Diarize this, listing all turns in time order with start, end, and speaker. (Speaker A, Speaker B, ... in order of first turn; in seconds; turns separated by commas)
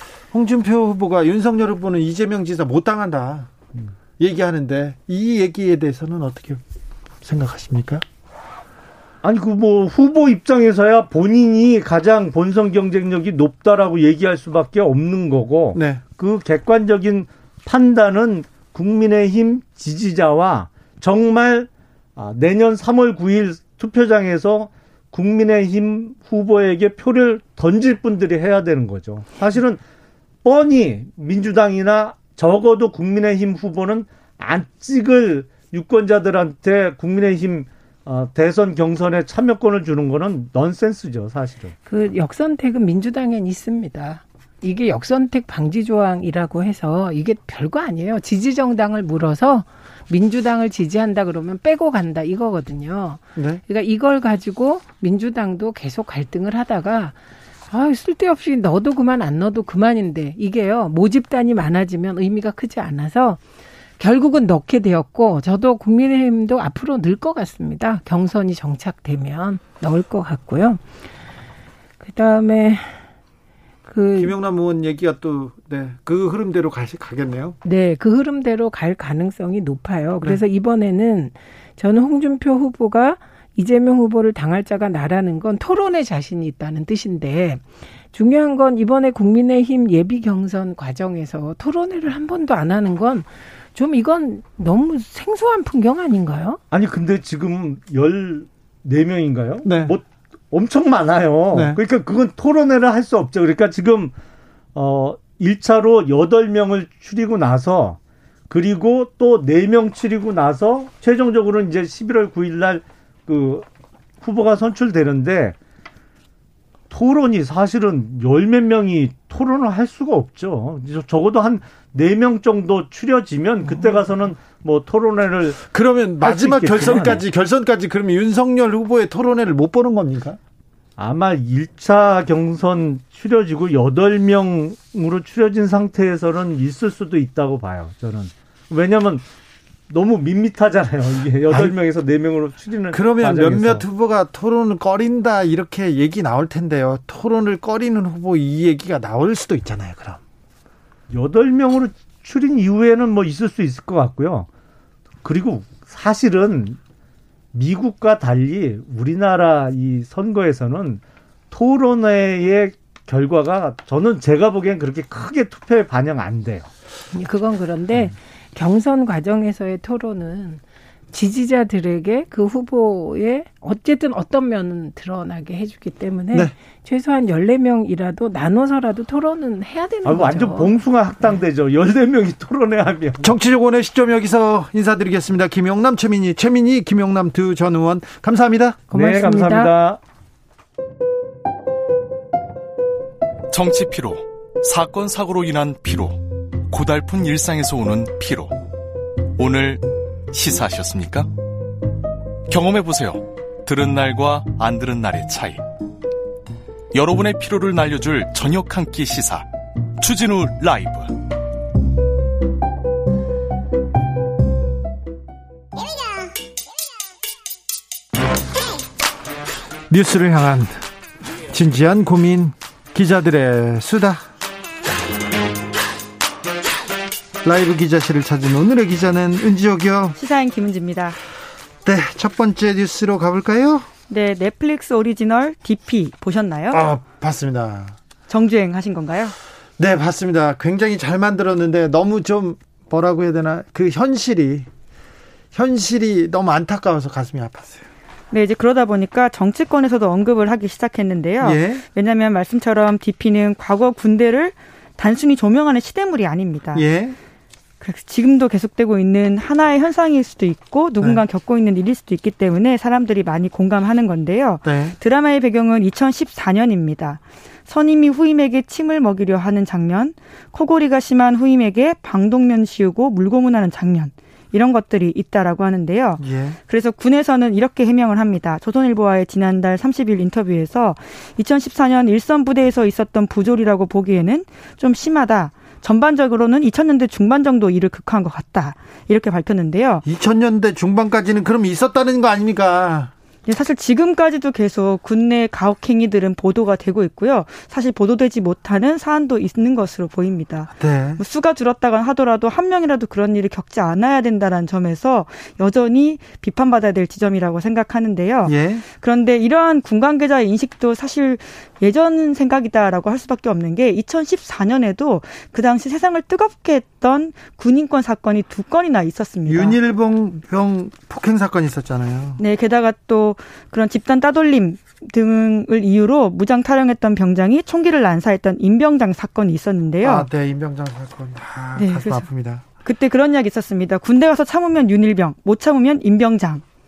Speaker A: 0.3-3.5, Speaker A: 4.2-6.6, Speaker A: 7.2-8.0, Speaker B: 9.2-29.8, Speaker A: 15.7-16.0, Speaker B: 30.4-41.7, Speaker C: 41.9-57.1, Speaker A: 53.4-53.6, Speaker C: 57.7-63.4, Speaker C: 64.0-70.8, Speaker C: 72.0-73.0, Speaker C: 73.8-74.3, Speaker A: 74.2-77.6, Speaker C: 77.6-96.6, Speaker B: 96.7-104.1, Speaker A: 99.6-100.0, Speaker A: 101.5-101.8, Speaker B: 104.7-108.0, Speaker B: 108.5-113.7, Speaker B: 114.2-115.5, Speaker B: 116.9-125.6, Speaker A: 125.7-130.4, Speaker B: 126.2-127.2, Speaker B: 131.0-139.2, Speaker B: 139.9-143.8, Speaker A: 141.5-141.7, Speaker A: 142.9-150.2, Speaker B: 151.1-154.5, Speaker B: 155.2-156.8, Speaker B: 157.5-166.7, Speaker C: 167.1-170.6, Speaker C: 171.1-180.7, Speaker B: 180.0-183.3, Speaker A: 183.2-188.8, Speaker C: 188.9-189.7, Speaker B: 188.9-190.0, Speaker D: 193.5-198.5, Speaker D: 199.4-201.3, Speaker D: 202.5-205.6, Speaker D: 206.9-209.4, Speaker D: 210.0-211.2, Speaker A: 219.9-220.7, Speaker A: 221.5-224.2, Speaker A: 227.4-230.2, Speaker E: 230.2-231.2, Speaker A: 231.8-233.9, Speaker E: 234.1-236.9, Speaker A: 236.7-238.0, Speaker E: 238.3-239.3, Speaker A: 239.8-244.7, Speaker A: 245.5-247.8, Speaker E: 248.3-256.8, Speaker A: 251.4-251.8, Speaker A: 256.7-257.2, Speaker E: 257.8-290.0, Speaker A: 264.6-264.9, Speaker A: 276.2-276.6, Speaker A: 290.0-293.1, Speaker E: 293.4-319.8, Speaker A: 300.8-301.2, Speaker A: 308.4-308.8, Speaker A: 319.5-322.4, Speaker E: 322.4-330.3, Speaker A: 330.0-332.6, Speaker E: 331.8-332.3, Speaker E: 332.8-336.6